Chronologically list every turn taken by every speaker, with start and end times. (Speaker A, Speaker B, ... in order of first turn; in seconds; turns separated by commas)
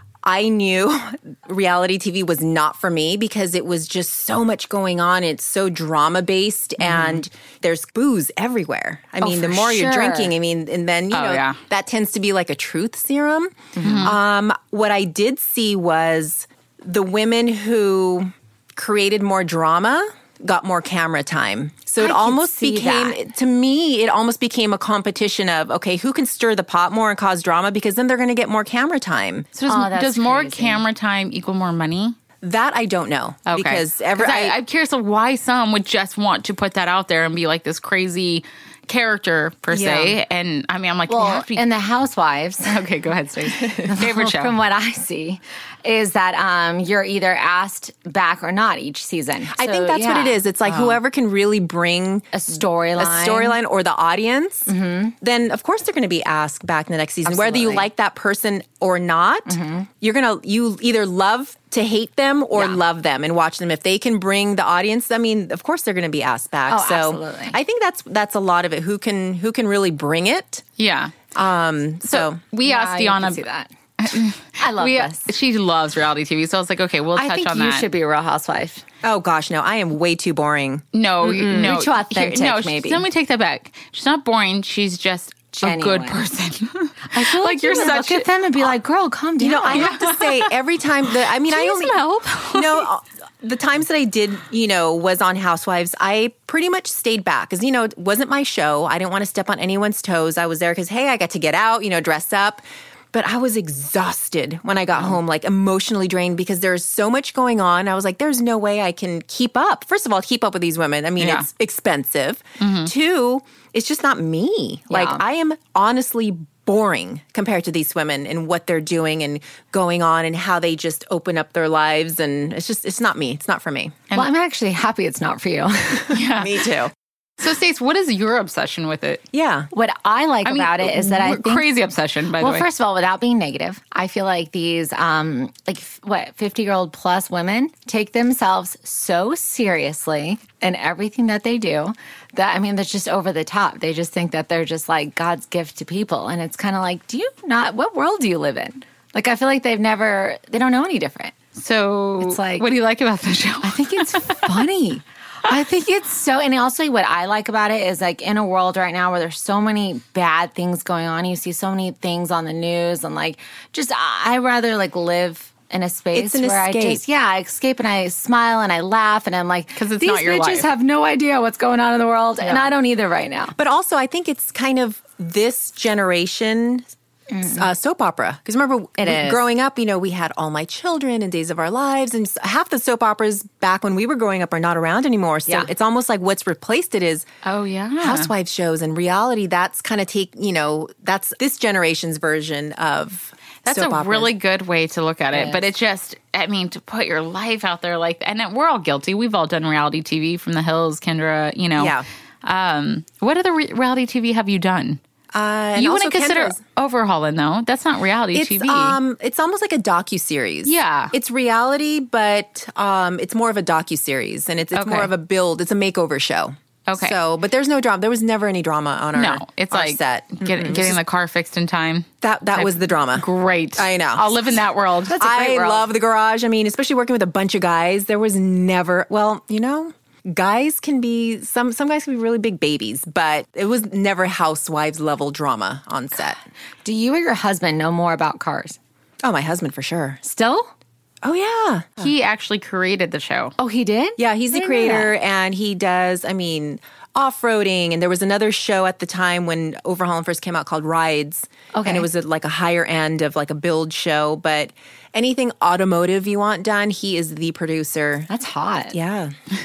Speaker A: 0.2-29.5, Speaker B: 9.2-10.3, Speaker C: 11.1-11.6, Speaker B: 13.8-14.1, Speaker C: 13.8-14.2, Speaker B: 22.0-23.2, Speaker C: 29.5-32.1, Speaker B: 29.7-30.8, Speaker A: 32.4-34.6, Speaker C: 33.5-41.6, Speaker A: 39.7-40.2, Speaker B: 41.1-42.8, Speaker C: 42.6-44.5, Speaker B: 43.6-50.4, Speaker A: 49.5-52.4, Speaker C: 50.7-50.9, Speaker B: 52.3-53.6, Speaker A: 53.0-70.6, Speaker B: 54.7-55.1, Speaker B: 57.2-57.9, Speaker B: 59.5-59.9, Speaker B: 62.5-62.8, Speaker B: 66.7-67.6, Speaker C: 70.8-71.2, Speaker A: 71.3-72.4, Speaker C: 72.0-73.4, Speaker B: 72.6-73.7, Speaker C: 74.0-77.8, Speaker B: 74.6-75.3, Speaker B: 77.1-78.8, Speaker A: 79.0-81.7, Speaker C: 80.9-88.7, Speaker B: 81.2-83.0, Speaker B: 85.5-86.2, Speaker B: 87.1-90.1, Speaker A: 89.4-92.0, Speaker C: 89.7-90.5, Speaker C: 91.5-92.9, Speaker A: 92.5-124.0, Speaker C: 111.2-111.5, Speaker C: 112.6-112.9, Speaker B: 114.9-115.2, Speaker B: 124.1-126.2, Speaker C: 126.1-126.6, Speaker A: 126.3-126.9, Speaker C: 127.4-129.2, Speaker A: 129.3-129.7, Speaker B: 129.7-131.7, Speaker C: 130.4-132.6, Speaker B: 132.4-151.3, Speaker C: 151.6-154.6, Speaker B: 152.2-152.7, Speaker B: 153.6-173.6, Speaker A: 166.1-167.0, Speaker C: 169.8-170.7, Speaker C: 172.4-172.7, Speaker A: 173.6-176.9, Speaker B: 177.3-177.6, Speaker A: 177.4-187.3, Speaker B: 179.0-179.4, Speaker C: 187.4-188.3, Speaker A: 188.0-194.3, Speaker C: 193.6-205.0, Speaker B: 195.3-195.6, Speaker A: 201.8-202.1, Speaker A: 205.3-206.6, Speaker C: 205.8-209.0, Speaker A: 208.3-221.0, Speaker C: 210.6-211.1, Speaker C: 214.7-215.1, Speaker C: 216.9-217.2, Speaker C: 219.1-225.2, Speaker A: 222.2-223.2, Speaker A: 223.8-224.5, Speaker B: 225.1-225.9, Speaker A: 225.2-236.4, Speaker B: 236.8-238.8, Speaker A: 239.2-240.2, Speaker B: 240.2-240.7, Speaker A: 241.2-242.0, Speaker C: 242.0-243.6, Speaker B: 243.6-245.1, Speaker A: 244.2-258.3, Speaker B: 251.7-252.1, Speaker B: 258.3-259.0, Speaker A: 258.9-259.3